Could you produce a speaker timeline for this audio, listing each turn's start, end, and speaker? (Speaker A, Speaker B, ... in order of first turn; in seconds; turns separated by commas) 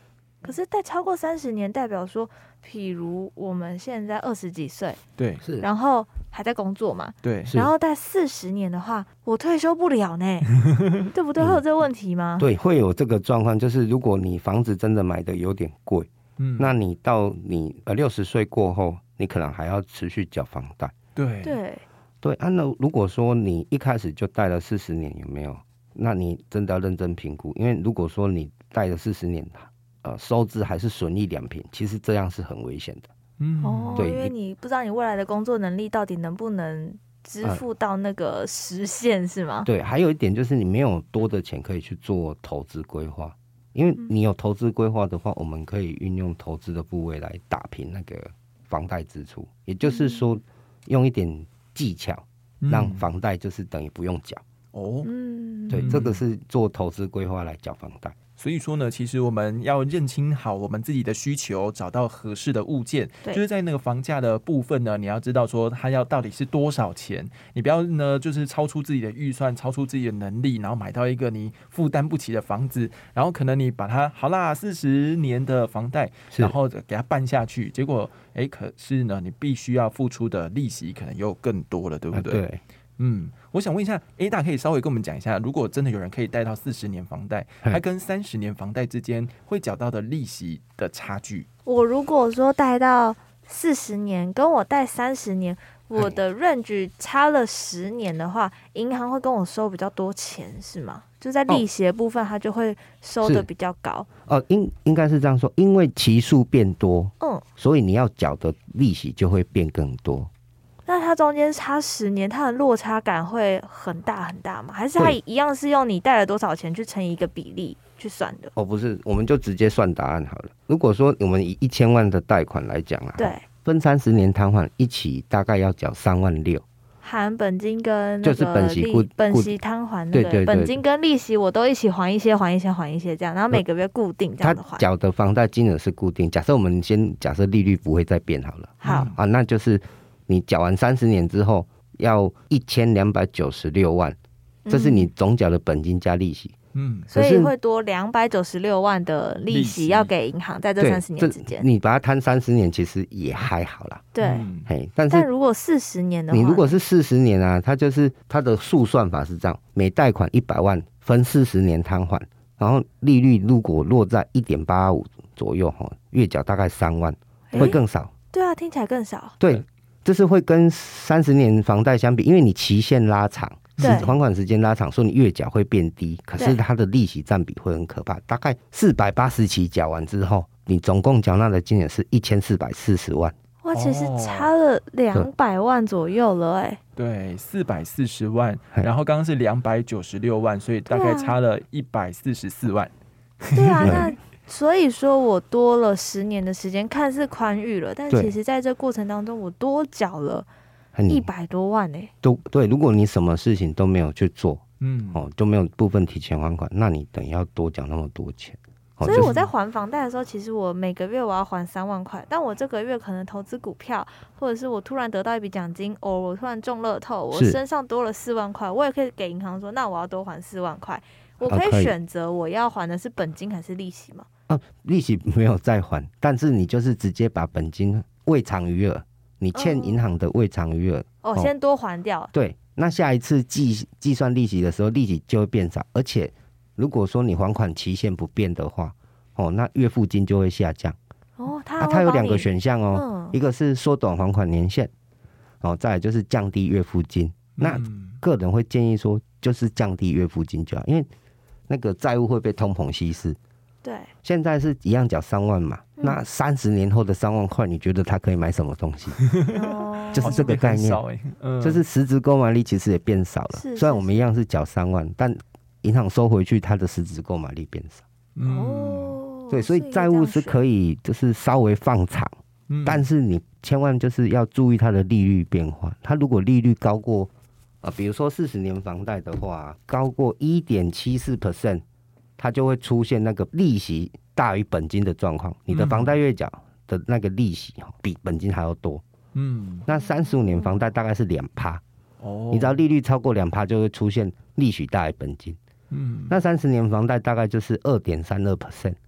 Speaker A: 0.4-5.0, Speaker B: 5.2-5.4, Speaker C: 5.4-5.7, Speaker A: 5.6-10.5, Speaker B: 7.2-7.6, Speaker C: 7.5-7.7, Speaker A: 11.1-12.5, Speaker C: 11.4-11.6, Speaker C: 12.4-20.9, Speaker B: 16.4-16.8, Speaker B: 21.1-21.6, Speaker A: 21.4-21.8, Speaker C: 22.2-33.1, Speaker B: 33.4-34.1, Speaker A: 33.6-39.7, Speaker C: 34.0-34.3, Speaker C: 39.6-54.4, Speaker A: 49.8-50.3, Speaker B: 52.6-53.1, Speaker B: 54.7-55.1, Speaker A: 55.0-55.9, Speaker C: 55.7-58.1, Speaker B: 55.7-56.2, Speaker B: 58.4-82.4, Speaker C: 82.1-82.6, Speaker B: 83.0-91.5, Speaker A: 91.6-104.1, Speaker C: 104.2-110.3, Speaker A: 107.2-107.4, Speaker A: 110.8-118.5, Speaker C: 118.5-126.6, Speaker A: 123.2-123.4, Speaker A: 127.0-134.9, Speaker C: 128.2-129.6, Speaker C: 130.1-130.8, Speaker C: 134.4-144.2, Speaker A: 138.8-139.1, Speaker B: 138.8-139.2, Speaker A: 144.6-145.1, Speaker C: 144.7-146.5, Speaker B: 146.7-147.1, Speaker A: 147.1-151.7, Speaker C: 147.1-147.5, Speaker B: 149.5-150.1, Speaker C: 150.8-154.1, Speaker A: 154.1-154.4, Speaker B: 154.2-154.7, Speaker C: 154.7-155.3, Speaker A: 155.1-156.8, Speaker C: 156.3-168.1, Speaker A: 167.5-167.8, Speaker A: 168.3-169.3, Speaker C: 169.4-183.3, Speaker B: 173.8-174.2, Speaker A: 173.8-174.1, Speaker A: 183.6-186.8, Speaker B: 183.7-184.5, Speaker B: 187.0-192.9, Speaker A: 190.9-191.3, Speaker B: 193.5-194.1, Speaker A: 193.5-200.5, Speaker C: 193.8-194.1, Speaker C: 198.1-198.3, Speaker C: 200.9-201.3, Speaker A: 201.1-202.1, Speaker C: 202.2-209.3, Speaker B: 204.8-205.2, Speaker B: 209.0-209.5, Speaker A: 209.0-224.3, Speaker C: 217.3-217.6, Speaker C: 221.5-221.9, Speaker C: 224.5-231.5, Speaker A: 229.5-230.0, Speaker A: 231.2-232.3, Speaker C: 232.3-241.0, Speaker A: 241.4-243.4, Speaker C: 241.8-244.9, Speaker C: 245.6-251.1, Speaker B: 247.6-248.2, Speaker C: 251.7-253.4, Speaker A: 253.8-254.1, Speaker C: 254.2-259.2, Speaker B: 259.2-261.8, Speaker A: 259.5-260.5, Speaker C: 260.1-261.0, Speaker C: 261.6-268.0, Speaker A: 263.5-264.2, Speaker B: 268.4-269.2, Speaker A: 268.4-270.6, Speaker C: 269.5-272.3, Speaker B: 272.7-273.1, Speaker C: 272.8-277.3, Speaker C: 277.8-281.8, Speaker C: 282.4-289.0, Speaker B: 285.7-286.2, Speaker B: 289.3-289.9, Speaker C: 289.9-291.8, Speaker B: 292.2-292.8, Speaker C: 292.5-295.6, Speaker B: 295.9-296.4, Speaker C: 296.3-298.9